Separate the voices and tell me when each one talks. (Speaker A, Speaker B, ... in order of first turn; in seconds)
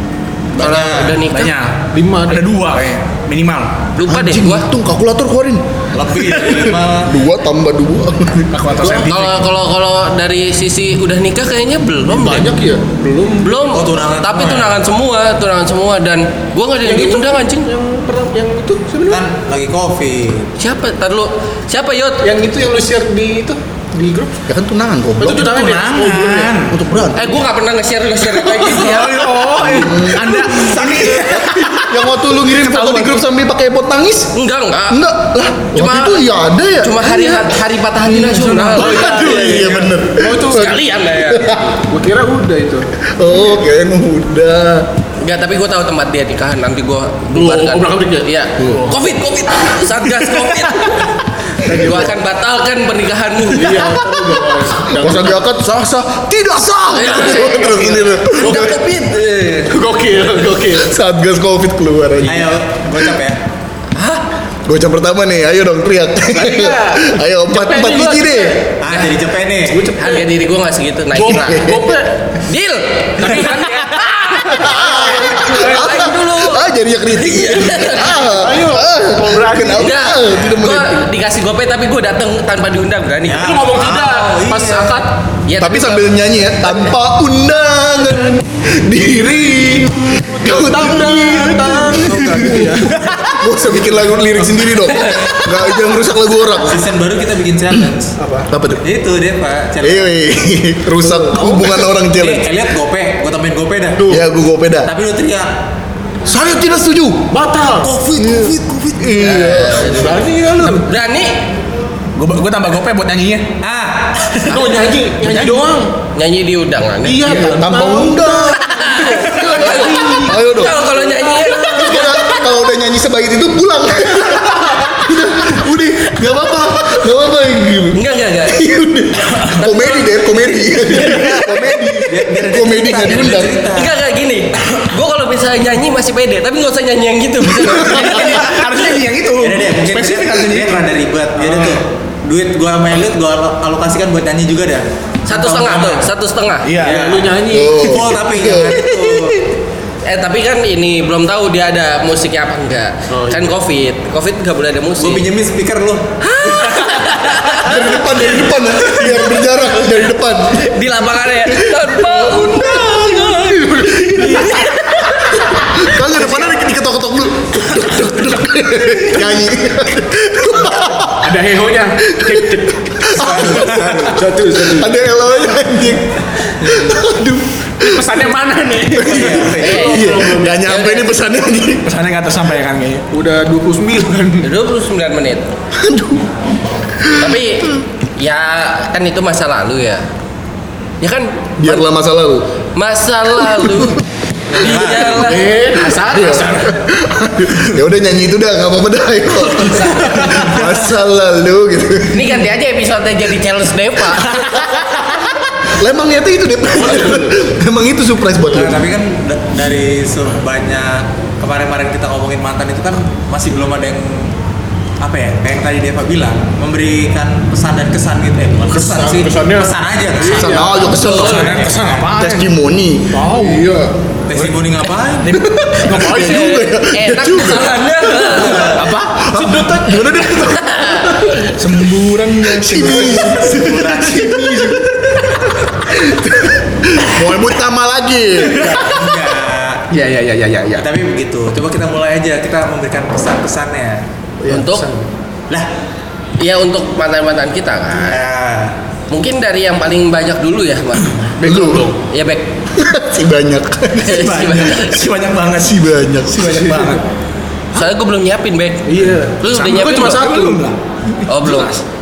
Speaker A: 0.6-1.6, 4.0-4.7, 8.8-12.5, 13.4-17.7, 20.6-22.2, 27.1-29.4, 34.3-35.0, 35.7-39.9, 40.5-41.7, 45.2-54.0, 56.9-59.8, 64.0-64.2, 70.0-71.7, 72.5-78.2, 79.8-83.6, 85.5-86.1, 95.0-95.3, 109.2-111.4, 116.1-117.6, 118.6-122.5, 127.9-128.6, 131.1-131.6, 133.7-138.6, 145.3-146.7, 150.1-155.3, 156.2-158.1, 159.7-165.4, 179.5-181.1, 184.4-185.5, 187.2-190.1, 191.0-191.9, 192.8-194.0, 194.5-195.5, 202.1-204.7, 221.0-221.7, 226.8-228.8, 230.6-231.3, 244.5-244.9, 246.4-248.2, 249.1-251.3, 252.1-252.5, 254.1-255.0, 257.7-260.2, 261.3-261.8
Speaker B: 0.6-1.2, 5.9-7.1, 13.7-14.8, 19.1-20.5, 62.2-63.4, 68.8-69.9, 83.2-85.0, 96.5-98.2, 98.8-100.2, 101.3-104.1, 104.9-105.5, 107.6-109.3, 113.6-114.8, 132.0-133.9, 139.4-146.1, 146.8-149.5, 155.0-156.1, 156.6-156.9, 173.1-174.3, 179.0-179.9, 194.6-195.3, 208.5-214.3, 215.0-220.6, 224.3-225.4, 233.0-234.7, 238.6-239.8, 240.8-244.0, 248.1-248.8
Speaker C: 0.6-3.8, 8.5-9.4, 25.3-26.9, 28.4-33.2, 48.7-49.0, 112.2-113.5, 115.2-115.6, 138.0-140.9, 146.6-147.0, 181.8-183.1, 220.9-222.5, 223.1-223.7, 228.6-229.3, 231.6-235.2, 254.1-255.8, 256.3-257.0, 259.5-261.8
Speaker D: 1.9-2.5, 12.1-13.6, 16.8-19.2, 22.2-24.4, 25.2-26.6, 38.7-40.8, 41.7-42.9, 47.3-48.9, 51.6-52.2, 53.4-55.5, 57.2-58.7, 59.7-61.0, 66.3-68.7, 69.7-70.3, 71.1-72.2, 73.2-76.1, 78.2-80.0, 83.4-85.2, 90.2-94.4, 98.2-98.5, 101.1-101.4, 107.3-107.9, 109.8-110.9, 114.5-115.9, 117.0-122.0, 141.4-141.8, 146.9-148.1, 153.1-153.4, 162.2-166.4, 171.1-175.1, 176.6-176.9, 177.8-180.7, 183.1-184.5, 194.9-196.8, 199.8-200.4, 206.9-207.3, 218.7-222.2, 223.3-223.9, 225.8-226.7, 228.3-230.4, 239.9-240.8, 244.4-245.1, 251.4-252.0, 258.9-260.6
Speaker E: 4.1-5.6, 7.0-8.5, 24.5-25.5, 26.7-27.4, 29.6-34.3, 34.9-41.7, 43.2-44.9, 48.6-48.9, 54.9-58.8, 60.7-62.5, 64.7-68.6, 71.1-71.9, 74.5-81.1, 85.6-96.8, 98.5-98.8, 99.8-102.5, 104.1-104.9, 106.2-107.3, 108.2-110.1, 117.5-118.6, 119.5-121.0, 121.7-133.6, 147.5-149.0, 157.5-160.7, 165.8-171.4, 172.1-173.9, 174.6-178.2, 178.9-181.9, 185.7-186.3, 186.9-187.7, 191.6-192.5, 193.3-194.0, 195.9-202.4, 204.7-205.0, 205.6-208.8, 220.2-223.2, 225.3-231.5, 232.4-233.6, 235.9-238.8, 251.4-251.9, 252.7-254.7, 255.6-256.8